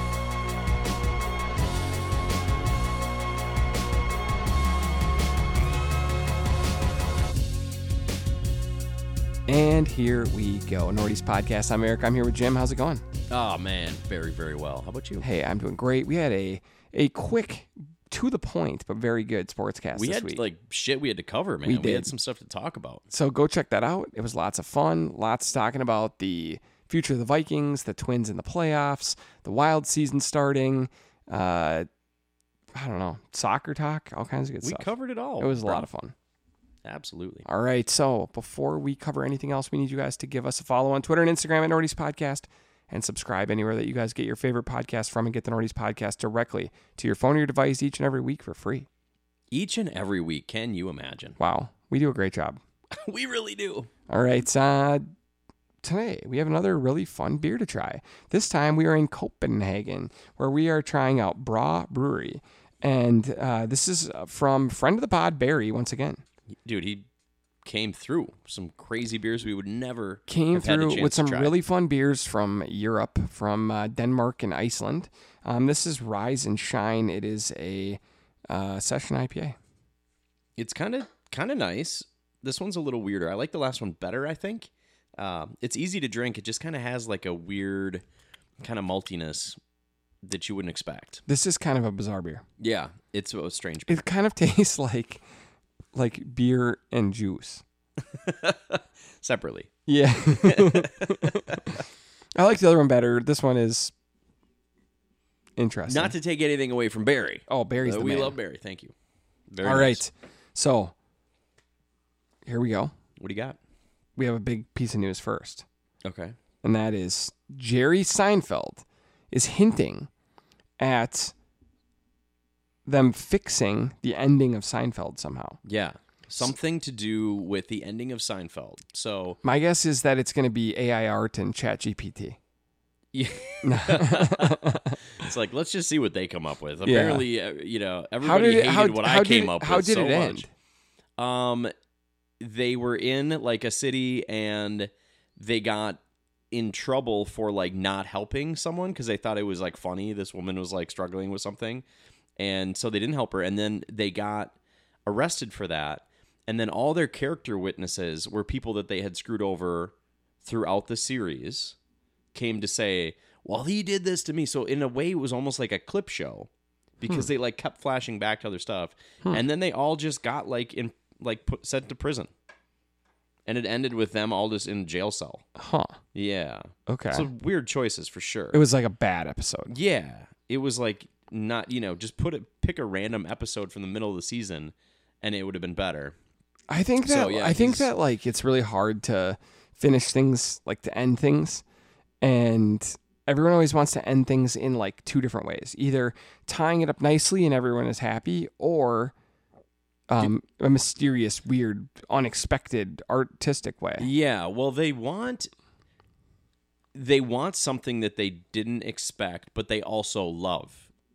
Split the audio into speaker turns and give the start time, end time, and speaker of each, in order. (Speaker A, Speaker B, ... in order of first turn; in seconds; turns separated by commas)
Speaker A: 9.5-13.0, Speaker B: 13.3-15.2, Speaker A: 15.2-20.4, Speaker B: 19.9-23.0, Speaker A: 21.6-22.1, Speaker A: 23.1-31.9, Speaker A: 32.7-36.1, Speaker B: 34.6-35.9, Speaker B: 36.8-37.5, Speaker A: 37.5-48.9, Speaker B: 49.5-51.4, Speaker A: 51.4-52.6, Speaker B: 52.9-53.9, Speaker A: 54.1-55.1, Speaker A: 55.8-66.2, Speaker B: 66.6-67.1, Speaker B: 67.6-71.5, Speaker A: 70.3-79.6, Speaker B: 80.6-88.0, Speaker B: 88.6-89.6, Speaker B: 90.2-91.2, Speaker A: 91.2-92.4, Speaker B: 92.6-94.0, Speaker A: 93.9-95.2, Speaker A: 95.9-97.6, Speaker B: 98.0-99.7, Speaker A: 99.8-101.8, Speaker B: 100.3-101.8, Speaker A: 102.4-103.9, Speaker A: 105.6-106.1, Speaker B: 105.9-108.9, Speaker A: 107.5-108.4, Speaker B: 109.5-110.0, Speaker A: 109.6-110.9, Speaker A: 112.5-112.9, Speaker B: 113.2-113.6, Speaker A: 114.2-115.7, Speaker B: 116.0-116.4, Speaker A: 116.6-120.1, Speaker A: 120.8-121.3, Speaker A: 122.8-125.6, Speaker B: 125.6-129.4, Speaker A: 129.4-132.4, Speaker B: 133.1-140.4, Speaker A: 133.6-135.0, Speaker A: 136.8-137.3, Speaker A: 138.2-140.5, Speaker B: 141.2-141.7, Speaker B: 142.4-146.0, Speaker B: 146.5-151.8, Speaker B: 152.4-154.5, Speaker B: 155.1-161.8, Speaker B: 162.3-166.5, Speaker B: 167.0-172.3, Speaker B: 173.4-175.4, Speaker A: 175.6-176.0, Speaker B: 176.1-178.6, Speaker A: 176.9-177.3, Speaker A: 178.5-179.7, Speaker B: 179.7-186.2, Speaker A: 186.7-191.6, Speaker B: 187.0-187.9, Speaker A: 192.2-199.1, Speaker A: 200.1-204.1, Speaker B: 204.0-205.5, Speaker B: 206.9-210.9